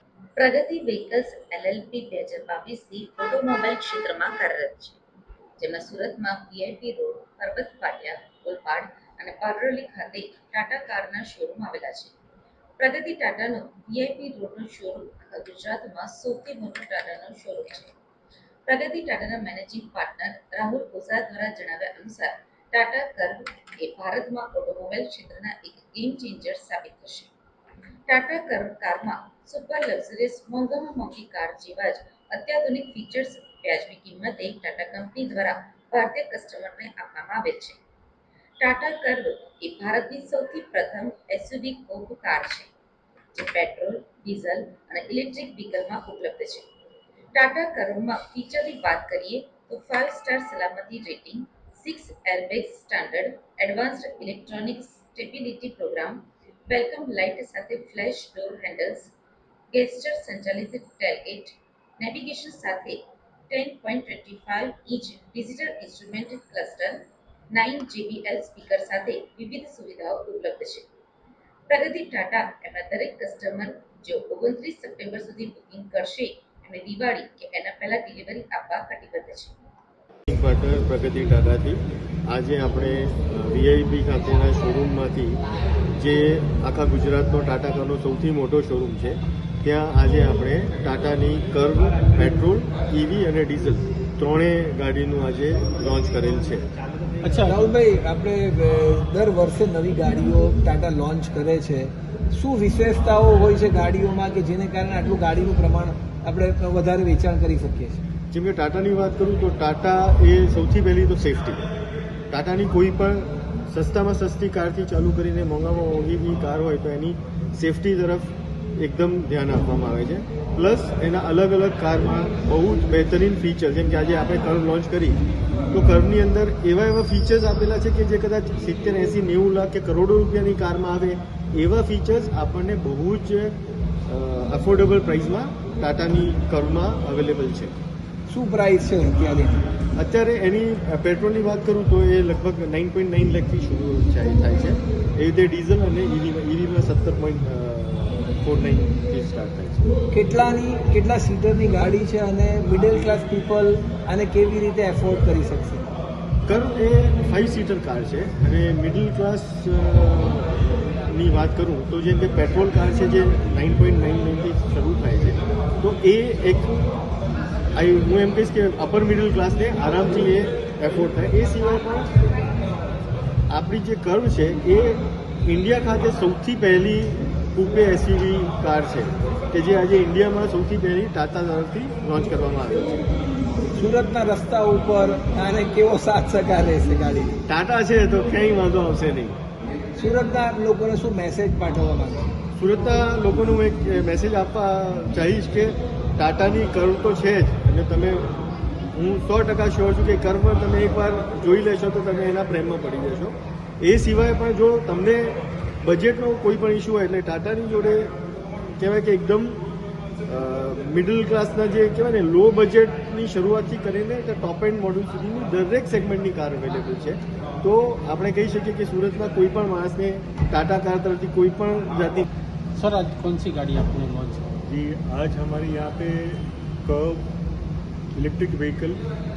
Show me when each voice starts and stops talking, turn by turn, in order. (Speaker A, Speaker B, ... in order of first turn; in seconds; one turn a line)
Speaker A: 0.4-5.0
Speaker A: 5.6-12.1
Speaker A: 12.8-17.9
Speaker A: 18.7-27.3
Speaker A: 28.1-37.8
Speaker A: 38.6-42.7
Speaker A: 43.3-46.7
Speaker A: 47.3-59.1
Speaker A: 59.7-70.8
Speaker A: 71.7-79.5
Speaker B: 80.3-85.4
Speaker B: 86.0-96.7
Speaker C: 97.2-97.6
Speaker D: 97.5-108.0
Speaker B: 108.3-111.6
Speaker B: 112.3-137.7
Speaker D: 138.3-139.7
Speaker B: 139.9-149.9
Speaker D: 150.1-155.9
Speaker B: 156.4-166.9
Speaker B: 167.7-172.1
Speaker B: 173.5-183.1
Speaker D: 183.7-187.4
Speaker B: 187.5-189.4
Speaker D: 190.0-192.3
Speaker B: 192.6-198.4
Speaker B: 198.9-208.1
Speaker B: 208.8-209.6
Speaker B: 210.2-222.3
Speaker C: 222.7-224.4
Speaker E: 224.7-227.3
Speaker E: 228.1-229.0